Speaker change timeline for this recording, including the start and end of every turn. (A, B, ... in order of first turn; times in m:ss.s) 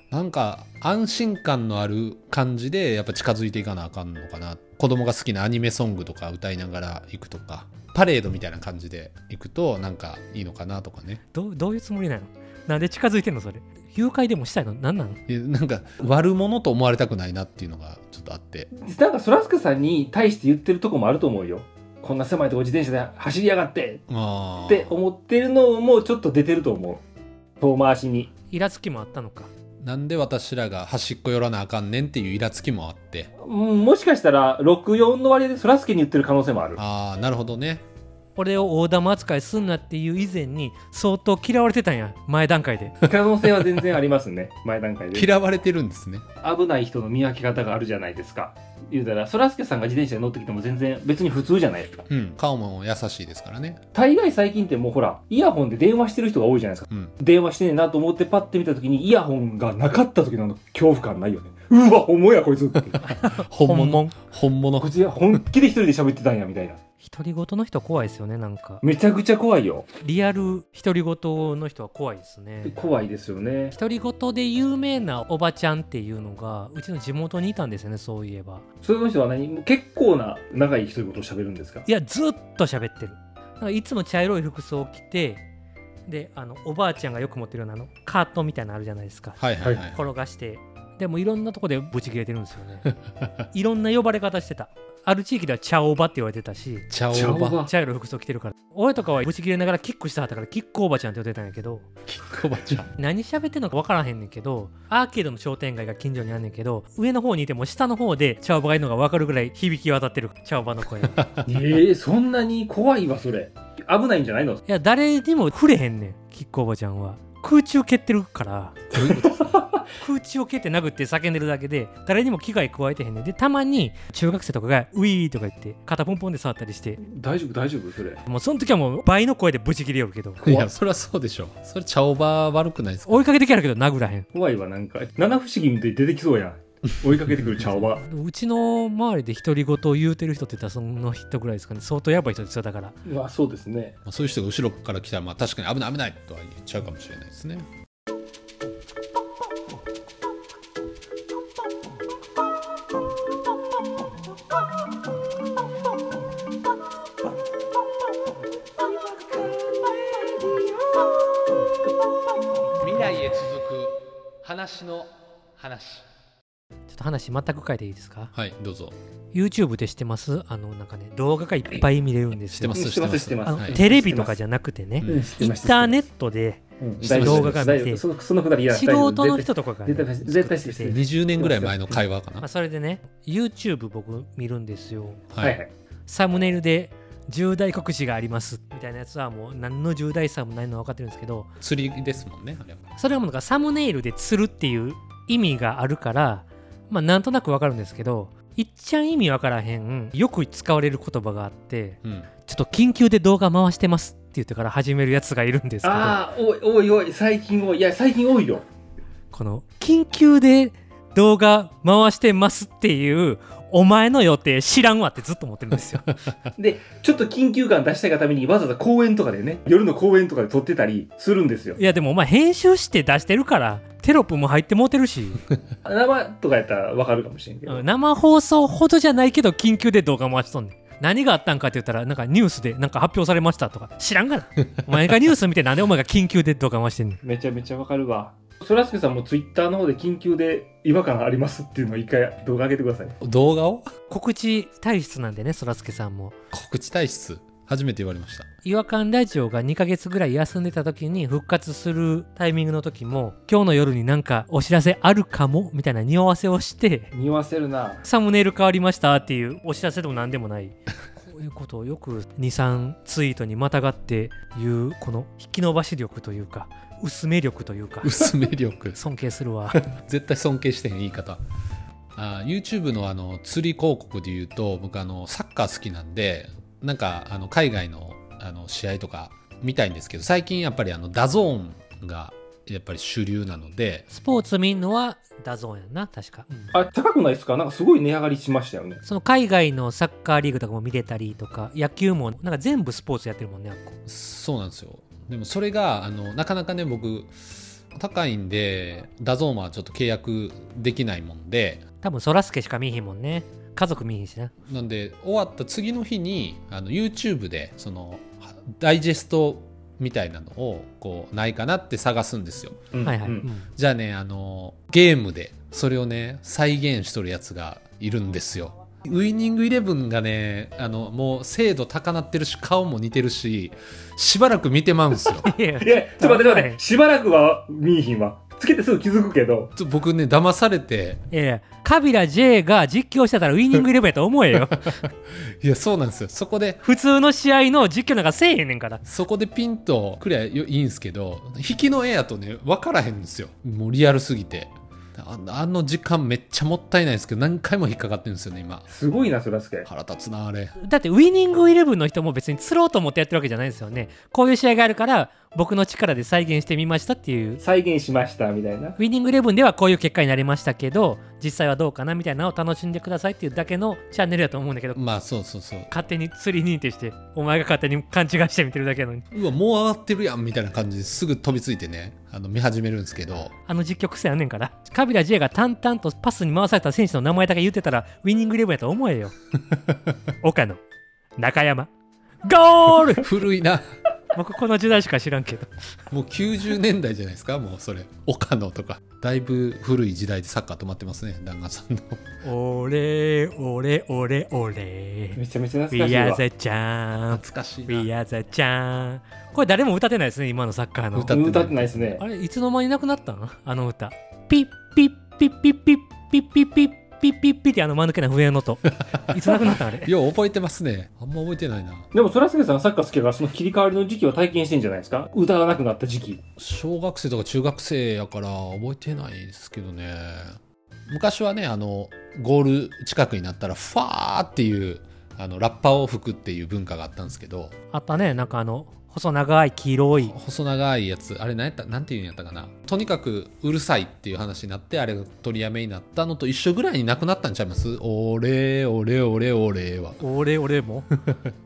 0:00.1-0:11.2 A
0:11.3-0:15.2 B
0:15.3-0:18.7 A
0:18.8-0:24.0 C
0:24.1-0:24.9 A
0:24.7-0:27.0 C
0:27.6-0:28.3 C
0:28.5-0:29.5 B
0:29.8-0:33.3 A
0:33.4-0:36.8 C
0:36.8-0:37.8 A
0:38.4-0:43.0 B
0:43.0-0:45.3 C
0:45.1-0:46.2 A
0:46.4-0:52.0 C
0:52.1-0:53.8 A
0:53.9-1:03.0 C
1:02.9-1:04.9 A
1:03.0-1:04.2 B
1:04.8-1:06.8 C
1:07.0-1:08.8 B
1:08.8-1:09.9 C
1:10.0-1:12.8 B
1:12.6-1:13.8 C
1:13.7-1:18.6 B
1:18.8-1:21.9 C
1:21.9-1:25.4 B
1:26.1-1:32.9 B
1:29.4-1:30.0 A
1:33.5-1:36.9 B
1:36.9-1:37.6 A
1:37.1-1:37.7 C
1:37.6-1:41.9 B
1:42.1-1:42.9 A
1:43.0-1:51.2 B
1:51.5-1:54.6 C
1:54.7-1:58.8 B
1:58.9-1:59.6 A
1:59.0-1:59.6 C
2:00.0-2:07.0 B
2:07.0-2:08.2 C
2:08.3-2:10.4 B
2:10.4-2:13.3 A
2:10.4-2:10.7 C
2:13.1-2:14.3 B
2:14.3-2:18.0 C
2:17.9-2:23.0 B
2:23.0-2:24.0 C
2:24.0-2:27.7 A
2:42.8-2:46.1 A
2:46.9-2:48.3 B
2:48.3-2:49.0 A
2:49.3-2:52.9 B
2:52.4-2:53.8 A
2:52.7-2:54.4 C
2:53.5-2:58.0 B
2:55.0-2:55.3 A
2:55.0-2:56.0 C
2:56.8-3:02.0 C
2:57.0-2:57.7 A
2:58.7-3:01.0 B
3:00.9-3:02.5 A
3:02.4-3:05.3 B
3:05.3-3:05.6 A
3:05.4-3:05.7 C
3:06.1-3:11.5 B
3:11.6-3:12.8 A
3:13.0-3:26.2 B
3:22.0-3:22.3 A
3:25.8-3:28.7 C
3:29.3-3:36.2 B
3:36.6-3:41.8 C
3:41.8-3:45.4 B
3:45.8-3:47.8 C
3:47.7-3:57.2 B
3:57.2-4:03.2 C
4:03.2-4:03.9 A
4:04.1-4:06.4 B
4:06.5-4:08.5 A
4:08.6-4:17.1 B
4:17.1-4:18.0 C
4:18.0-4:28.3 B
4:28.0-4:29.0 A
4:29.0-4:29.8 B
4:29.7-4:31.4 A
4:32.2-4:44.1 A
4:44.1-4:46.7 B
4:46.7-4:49.0 C
4:49.0-4:54.0 B
4:54.1-5:01.8 A
5:02.0-5:04.5 B
5:04.7-5:12.9 A
5:12.9-5:13.4 C
5:13.0-5:13.7 B
5:13.8-5:25.5 A
5:25.4-5:26.8 B
5:25.8-5:29.7 C
5:29.8-5:31.2 A
5:31.3-5:35.0 B
5:35.0-5:36.8 A
5:36.8-5:39.0 B
5:39.0-5:48.9 A
5:48.9-5:49.9 C
5:49.9-5:50.8 A
5:50.8-5:57.6 B
5:57.6-5:59.0 C
5:59.0-6:05.0 B
6:05.0-6:05.9 A
6:05.9-6:09.3 B
6:09.3-6:13.5 A
6:13.7-6:19.3 B
6:20.4-6:20.8 B
6:21.4-6:21.9 B
6:22.4-6:23.3 B
6:23.2-6:23.8 A
6:24.3-6:25.7 B
6:26.1-6:32.2 A
6:32.4-6:35.4 B
6:35.4-6:36.4 C
6:35.9-6:41.4 B
6:37.3-6:38.1 A
6:41.1-6:42.1 A
6:41.3-6:42.2 C
6:42.2-6:50.1 B
6:49.6-6:52.1 A
6:52.1-6:56.4 C
6:56.6-7:07.8 A
7:07.9-7:10.3 B
7:10.2-7:20.2 A
7:20.2-7:21.1 B